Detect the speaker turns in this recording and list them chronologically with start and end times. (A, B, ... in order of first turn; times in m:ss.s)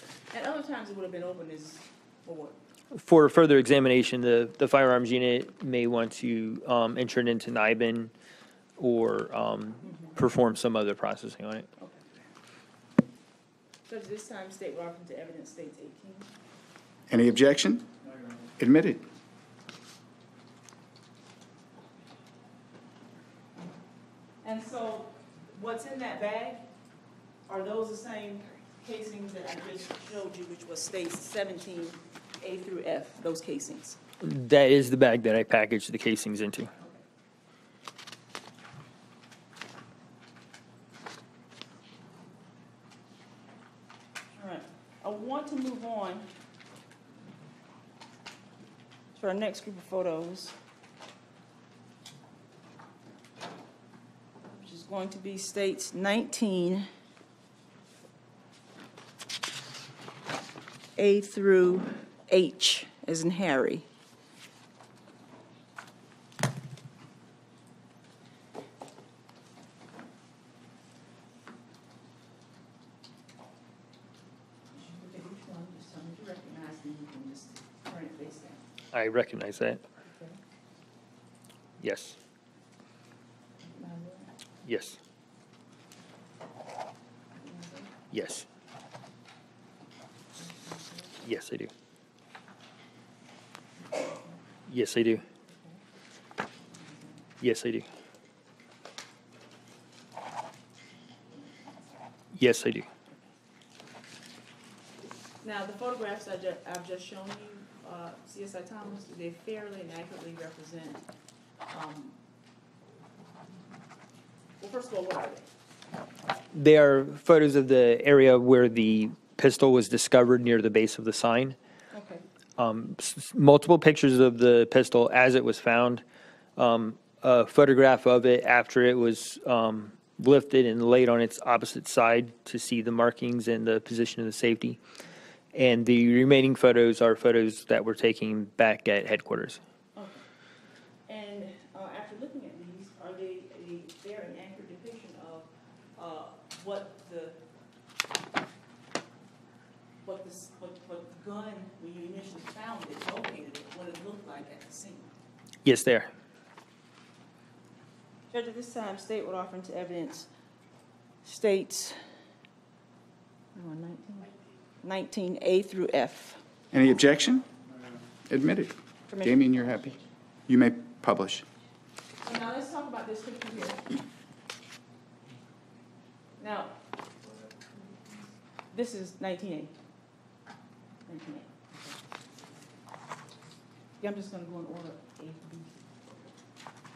0:00.3-0:02.5 A
0:02.9-0:08.1 B
0:08.8-0:11.7 B
0:13.9-0:16.3 A
0:17.1-0:17.9 C
0:18.6-0:19.0 C
0:24.4-0:26.6 A
0:27.5-0:34.0 A
0:34.2-0:36.7 B
0:36.8-0:37.0 A
0:44.4-0:46.3 A
0:49.2-0:50.5 A
0:54.6-0:56.9 A
1:01.0-1:03.8 A
1:14.7-1:18.6 A
1:18.9-1:19.8 B
1:20.1-1:20.4 A
1:21.8-1:22.2 B
1:23.6-1:24.3 A
1:24.6-1:25.0 B
1:27.3-1:27.9 A
1:28.1-1:28.5 B
1:30.4-1:31.1 A
1:31.2-1:31.7 B
1:33.9-1:34.3 A
1:34.7-1:35.2 B
1:35.5-1:35.8 A
1:36.7-1:37.2 A
1:37.4-1:37.9 B
1:42.3-1:42.9 B
1:45.4-1:51.0 A
1:51.7-1:52.2 A
1:54.6-1:55.4 A
1:56.5-2:01.6 B
2:01.9-2:02.2 A
2:02.6-2:06.0 B
2:06.6-2:14.8 B
2:15.5-2:19.6 B
2:20.0-2:20.2 A
2:21.1-2:27.4 A
2:30.0-2:35.1 A
2:35.6-2:36.1 B
2:38.3-2:40.3 A
2:41.2-2:42.0 A
2:43.5-2:46.4 A
2:46.7-2:47.5 C
2:48.3-2:51.4 C
2:49.1-2:50.0 A
2:52.2-2:54.0 A
2:56.4-2:56.7 A
2:58.7-2:59.8 A
3:01.0-3:01.9 A
3:04.0-3:05.8 A